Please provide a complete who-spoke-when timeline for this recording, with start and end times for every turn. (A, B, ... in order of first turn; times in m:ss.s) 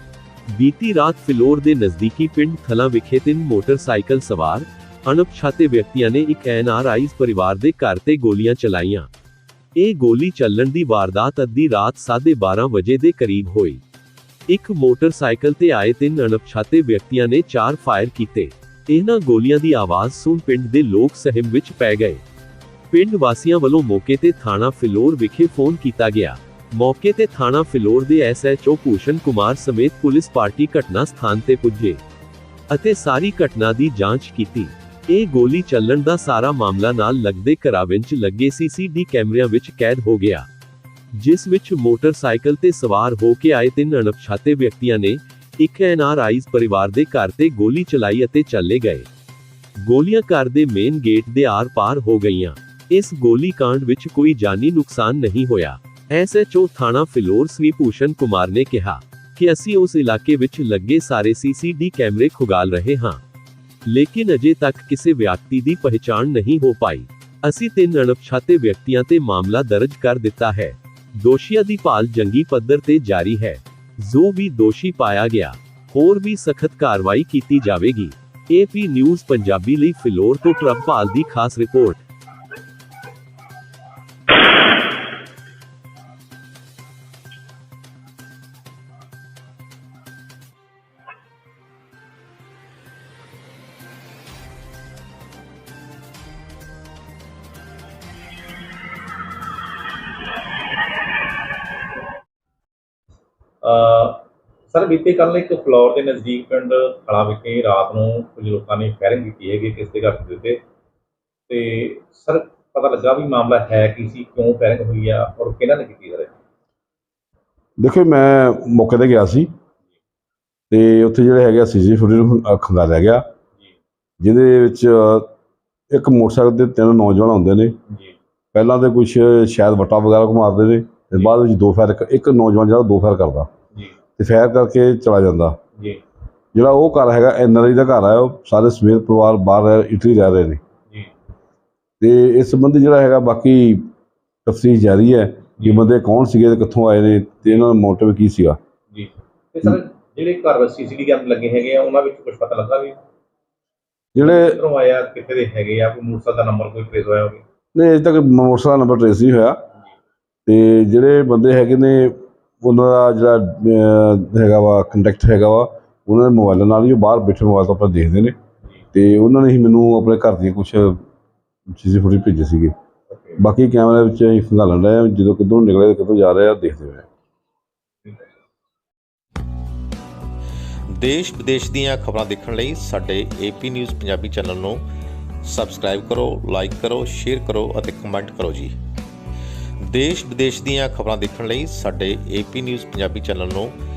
0:00.5-0:09.1 A
0:09.8-0:13.8 A
0:14.5-0:22.2 A
0:22.9-0:32.0 A
0:32.7-0:40.5 A
0:41.1-0:49.1 A
0:49.8-1:03.2 A
1:03.9-1:22.0 A
1:43.6-1:50.6 B
1:51.5-1:56.3 B
1:57.8-1:59.5 C
2:00.7-2:03.2 C
2:04.2-2:05.3 C
2:05.9-2:07.8 C
2:07.9-2:08.1 B
2:08.5-2:13.5 C
2:14.2-2:15.6 C
2:16.5-2:20.6 C
2:22.0-2:23.9 C
2:24.5-2:28.6 C
2:25.6-2:25.9 B
2:28.9-2:33.0 B
2:34.2-2:34.6 C
2:34.2-2:37.4 B
2:37.8-2:39.6 C
2:40.5-2:48.4 C
2:48.9-2:51.0 C
2:51.7-2:52.7 C
2:53.1-2:53.4 B
2:53.4-2:57.1 C
3:01.0-3:04.8 D
3:05.5-3:08.7 D
3:09.9-3:13.7 D